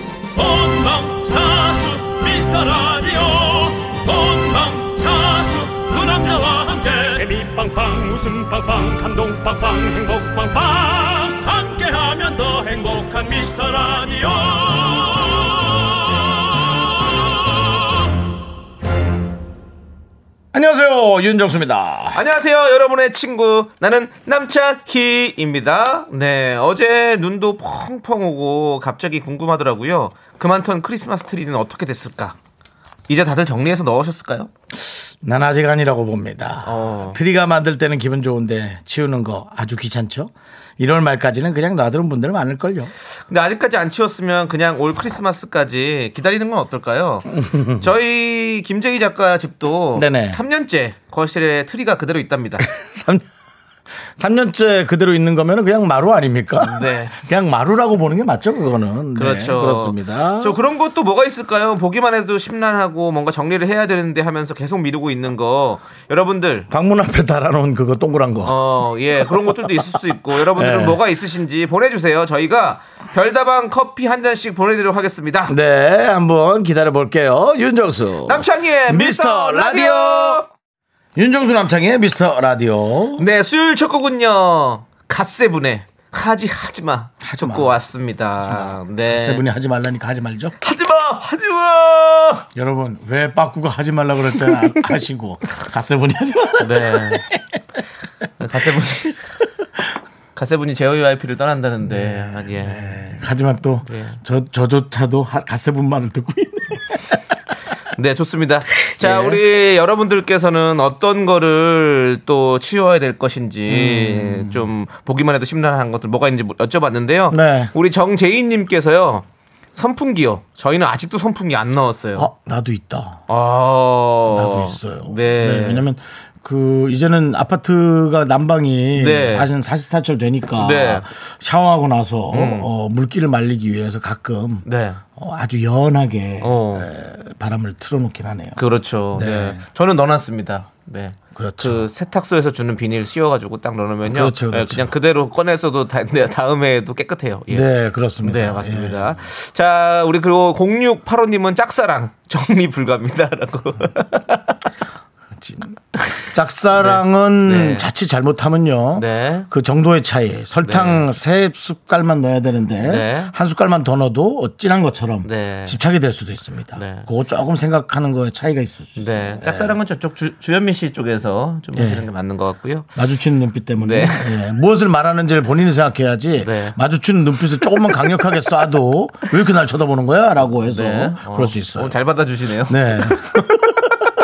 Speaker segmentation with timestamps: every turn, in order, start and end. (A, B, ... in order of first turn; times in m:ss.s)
0:00.3-0:18.1 A
0:20.5-0:22.2 B
0:22.1-0:32.4 C
0:33.1-0:34.5 C
0:35.2-0:42.9 B
0:36.6-0:37.2 C
0:43.3-0:52.6 C
0:47.3-0:47.9 B
0:49.9-0:50.4 B
0:52.6-0:53.2 B
0:54.2-1:00.6 B
0:56.6-0:57.1 C
0:59.2-1:06.7 C
1:06.7-1:08.6 B
1:08.4-1:15.5 C
1:09.2-1:09.8 B
1:10.4-1:11.0 B
1:15.5-1:20.4 B
1:18.3-1:20.4 C
1:21.2-1:23.2 B
1:23.2-1:29.4 C
1:27.2-1:27.8 B
1:28.4-1:30.6 B
1:30.6-1:32.5 C
1:32.5-1:37.6 B
1:36.6-1:37.2 C
1:38.4-1:39.2 C
1:40.3-1:43.0 C
1:41.8-1:47.2 B
1:43.8-1:44.2 C
1:47.9-2:02.3 C
1:48.9-1:49.4 B
1:53.7-1:54.7 B
1:57.3-1:57.7 B
2:02.2-2:03.2 B
2:03.3-2:05.8 C
2:04.2-2:18.6 B
2:08.9-2:09.5 C
2:10.6-2:11.1 C
2:12.3-2:12.7 C
2:14.6-2:15.0 C
2:16.4-2:16.9 C
2:18.6-2:34.6 C
2:19.1-2:19.6 B
2:21.3-2:21.8 B
2:24.0-2:24.9 B
2:27.5-2:29.2 B
2:35.4-2:35.8 B
2:36.3-2:49.8 B
2:36.8-2:37.9 C
2:38.9-2:39.5 C
2:40.6-2:41.1 C
2:42.8-2:43.3 C
2:45.2-2:45.8 C
2:46.7-2:47.1 C
2:49.0-2:52.9 C
2:51.7-2:52.1 B
2:53.0-3:02.0 B
2:53.8-2:54.4 C
2:56.4-2:56.8 C
2:57.7-2:58.1 C
3:00.6-3:03.9 C
3:02.7-3:03.9 B